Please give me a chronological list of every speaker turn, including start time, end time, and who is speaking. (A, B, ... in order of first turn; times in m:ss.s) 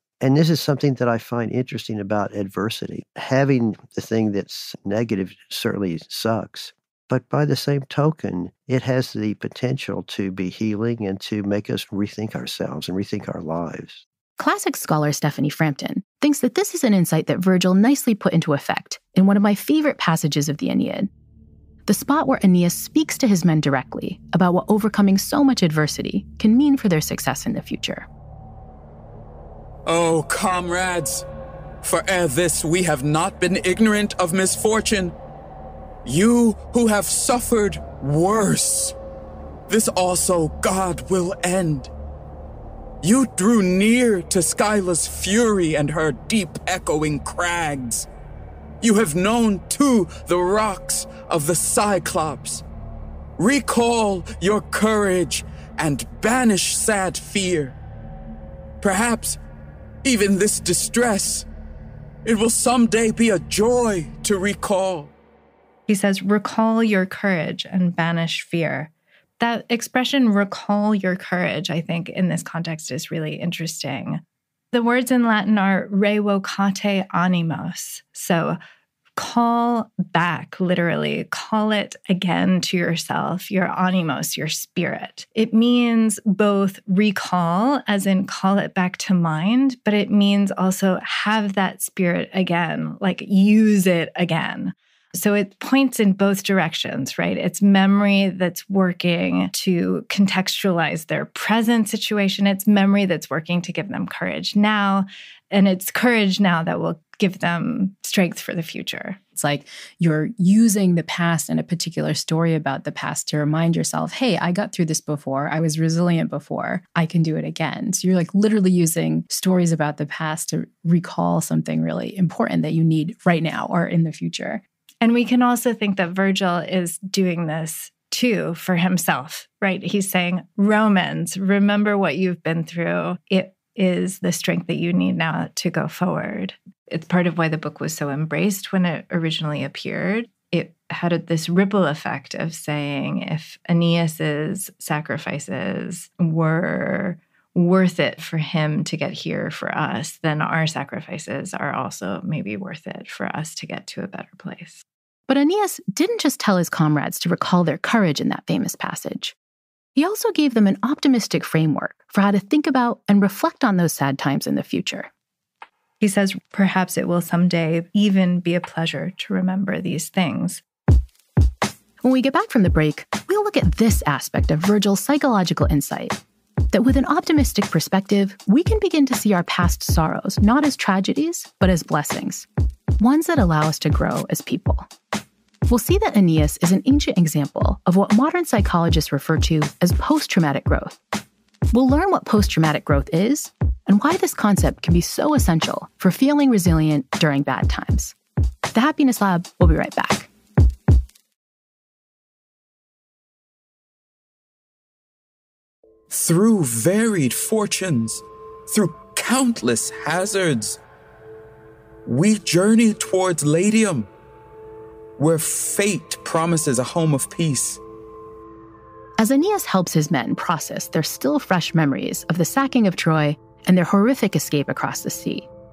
0:00.2-0:14.0 A
0:14.4-0:21.1 B
0:21.9-0:28.1 B
0:29.9-0:31.2 C
0:31.8-0:35.2 C
0:36.0-0:39.0 C
0:39.7-0:41.9 C
0:43.0-0:48.1 C
0:48.8-0:52.6 C
0:53.4-0:57.8 C
0:58.8-0:59.4 C
1:00.0-1:01.5 C
1:02.2-1:05.1 C
1:05.9-1:18.6 D
1:19.2-1:49.2 D
1:49.4-2:04.6 B
2:05.0-2:34.8 D
2:35.3-2:39.4 B
2:40.0-2:45.1 B
2:46.0-2:50.6 D
2:52.0-2:56.2 B
2:56.7-3:02.5 B
3:03.0-3:04.9 B
3:05.7-3:11.0 B
3:11.7-3:18.2 B
3:18.7-3:20.3 B
3:26.1-3:30.8 C
3:32.0-3:34.1 C
3:35.2-3:37.8 C
3:39.2-3:45.5 B